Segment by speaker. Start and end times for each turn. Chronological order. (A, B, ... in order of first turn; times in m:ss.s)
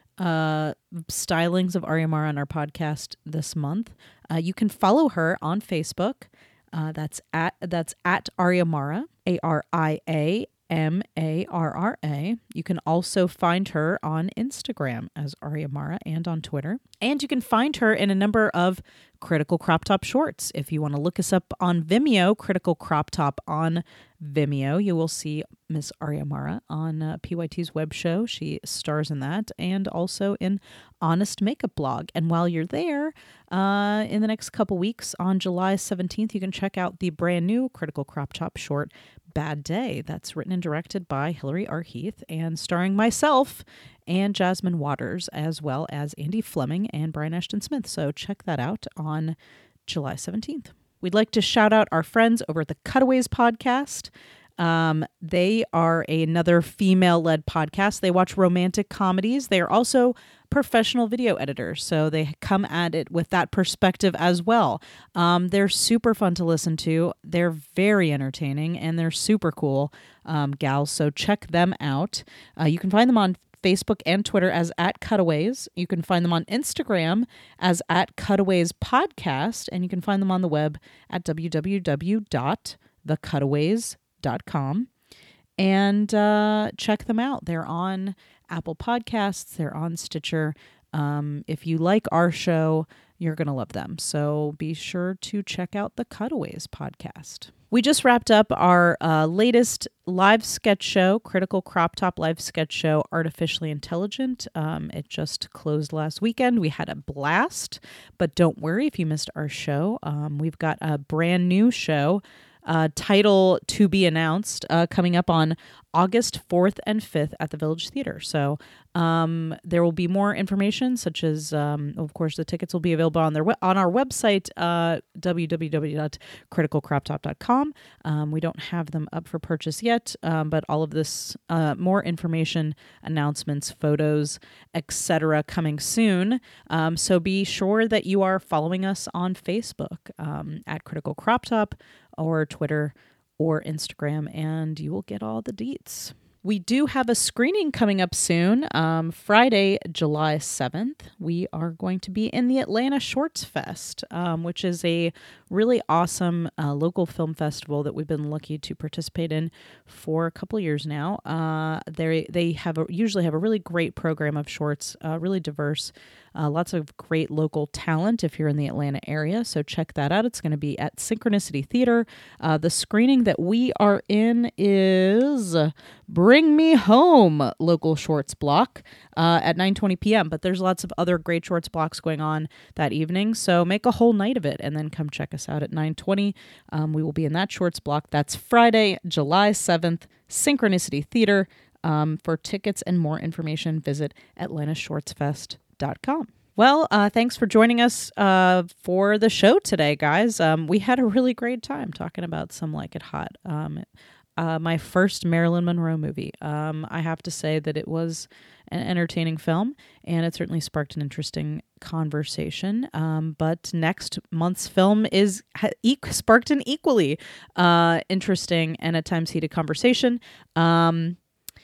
0:00.2-1:24.9 A
1:25.6-3:23.8 A
3:24.4-3:41.2 A